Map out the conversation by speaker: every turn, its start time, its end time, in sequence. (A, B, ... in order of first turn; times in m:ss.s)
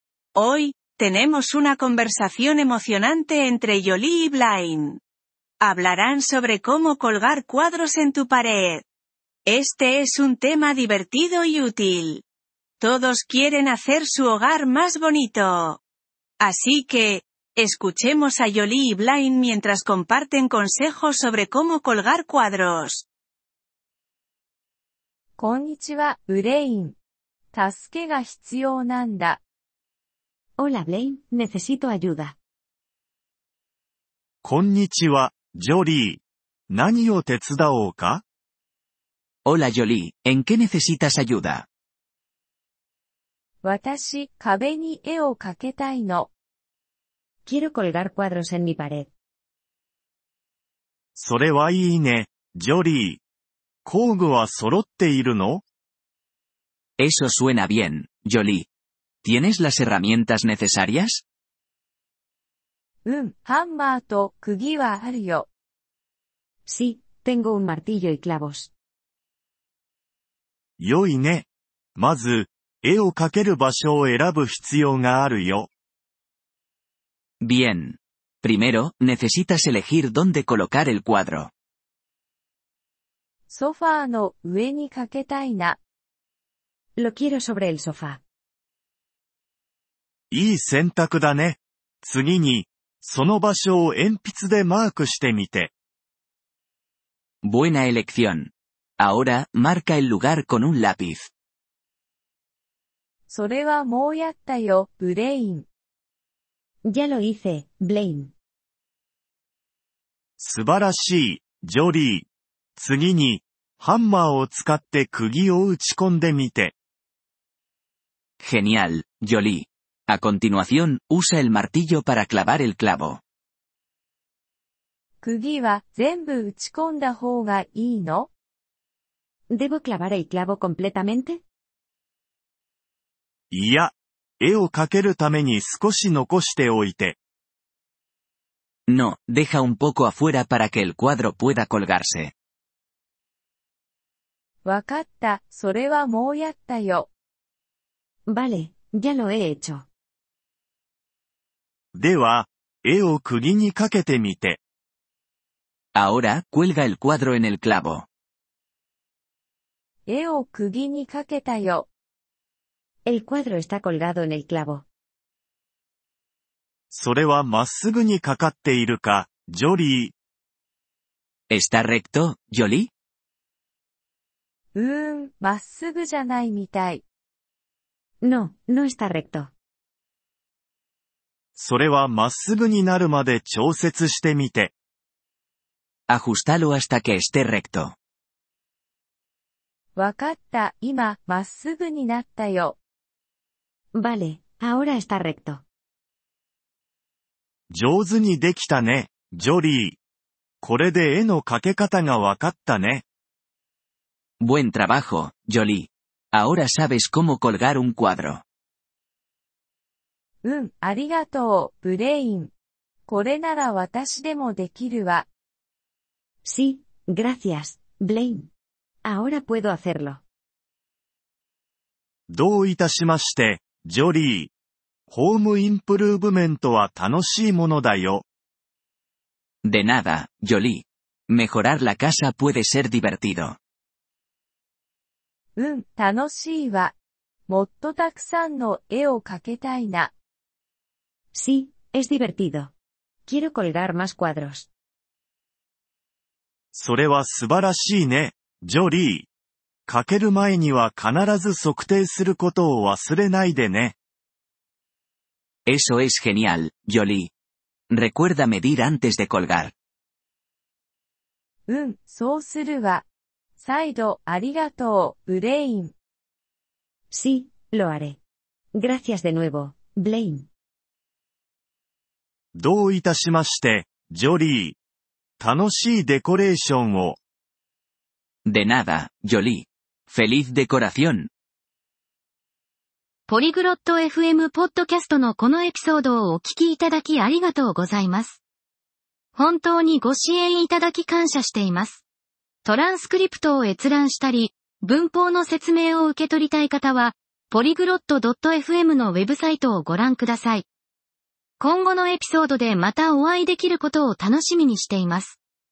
0:00.4-0:05.0 A
0:05.6-0:08.8 A
0:09.5-0:12.2 A
0:12.8-0:15.8 A
0:16.4-0:23.1 A
0:25.4-0:27.0 B
0:27.5-0:29.4 B
0:30.6-0:32.4 C
0:34.4-0:38.2 D
0:39.4-0:41.7 E
0:43.6-0:46.3 B
0:47.5-0:49.1 C
0:51.2-0:53.2 D
0:53.8-0:55.6 D
0:57.0-0:58.7 E
0:59.2-1:01.2 E
1:03.0-1:05.5 B
1:06.7-1:08.7 C
1:10.8-1:15.7 D
1:17.4-1:21.5 E
1:23.5-1:25.8 B
1:27.0-1:28.2 C
1:30.3-1:35.7 D
1:37.4-1:41.3 E
1:43.3-1:45.7 B
1:46.9-1:48.3 C
1:50.4-1:56.8 D
1:58.4-2:03.2 E
2:05.2-2:08.3 B
2:09.5-2:11.4 C
2:13.5-2:17.2 D
2:18.9-2:22.3 E
2:24.6-2:27.1 B
2:28.3-2:29.9 C
2:31.9-2:34.6 D
2:35.9-2:38.1 E
2:40.1-2:41.9 B
2:43.1-2:44.8 C
2:46.9-2:50.1 D
2:51.5-2:52.9 E
2:54.7-2:57.0 B
2:58.2-2:59.5 C
3:01.6-3:04.7 D
3:06.1-3:08.0 E
3:10.0-3:12.8 B
3:14.0-3:15.6 C
3:17.7-3:20.0 D
3:20.6-3:23.0 D
3:24.4-3:28.4 E
3:30.4-3:32.5 B
3:33.1-3:35.3 B
3:36.4-3:38.5 C
3:39.0-3:40.2 C
3:42.3-3:44.5 D
3:45.1-3:48.2 D
3:49.6-3:53.6 E
3:55.6-3:57.0 B
3:57.5-4:00.1 B
4:01.3-4:02.7 C
4:03.3-4:04.7 C
4:06.7-4:09.3 D
4:09.9-4:14.0 D
4:15.7-4:17.3 E
4:17.9-4:19.7 E
4:21.7-4:23.0 B
4:23.6-4:25.9 B
4:27.1-4:28.2 C
4:28.8-4:30.5 C
4:32.6-4:34.8 D
4:35.4-4:37.2 D
4:38.4-4:41.3 E
4:43.3-4:48.4 F
4:49.4-4:52.0 F
4:52.6-5:00.6 F
5:01.6-5:05.4 F